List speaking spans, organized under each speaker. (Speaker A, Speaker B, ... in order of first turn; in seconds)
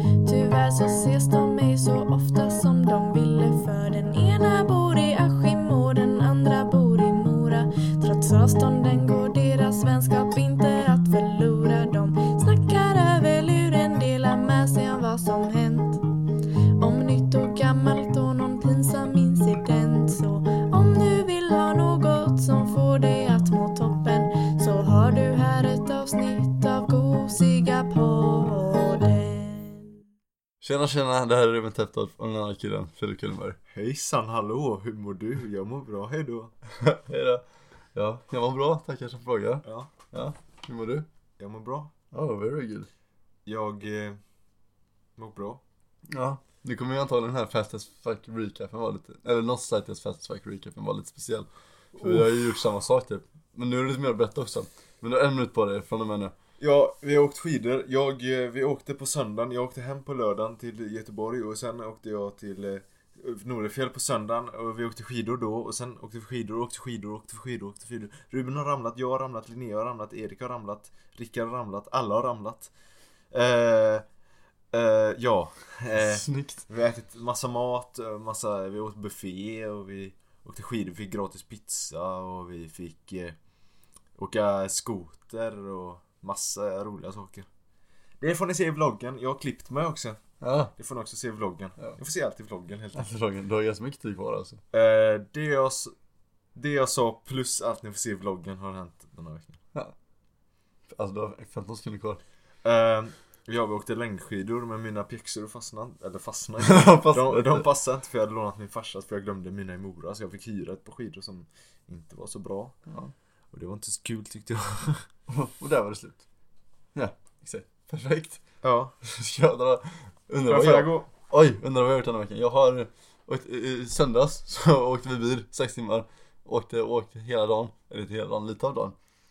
Speaker A: 0.2-16.0, 16.8-30.0
Speaker B: 30.6-33.6, 36.7-41.1, 42.1-42.9, 46.1-56.3, 76.0-76.6, 90.4-90.7, 92.9-94.6, 100.9-102.2, 106.6-107.7, 112.9-113.1, 115.3-116.2, 116.9-118.4, 119.0-128.9
Speaker C: 33.7-36.5, 39.6-39.9, 41.4-41.9, 43.5-44.2, 45.2-45.6, 56.6-72.7, 73.3-74.0, 74.7-83.4, 84.2-87.5, 88.2-90.2, 90.7-93.1, 94.7-95.9, 96.5-99.6, 102.6-112.8, 113.5-115.1, 118.6-118.9, 120.5-121.1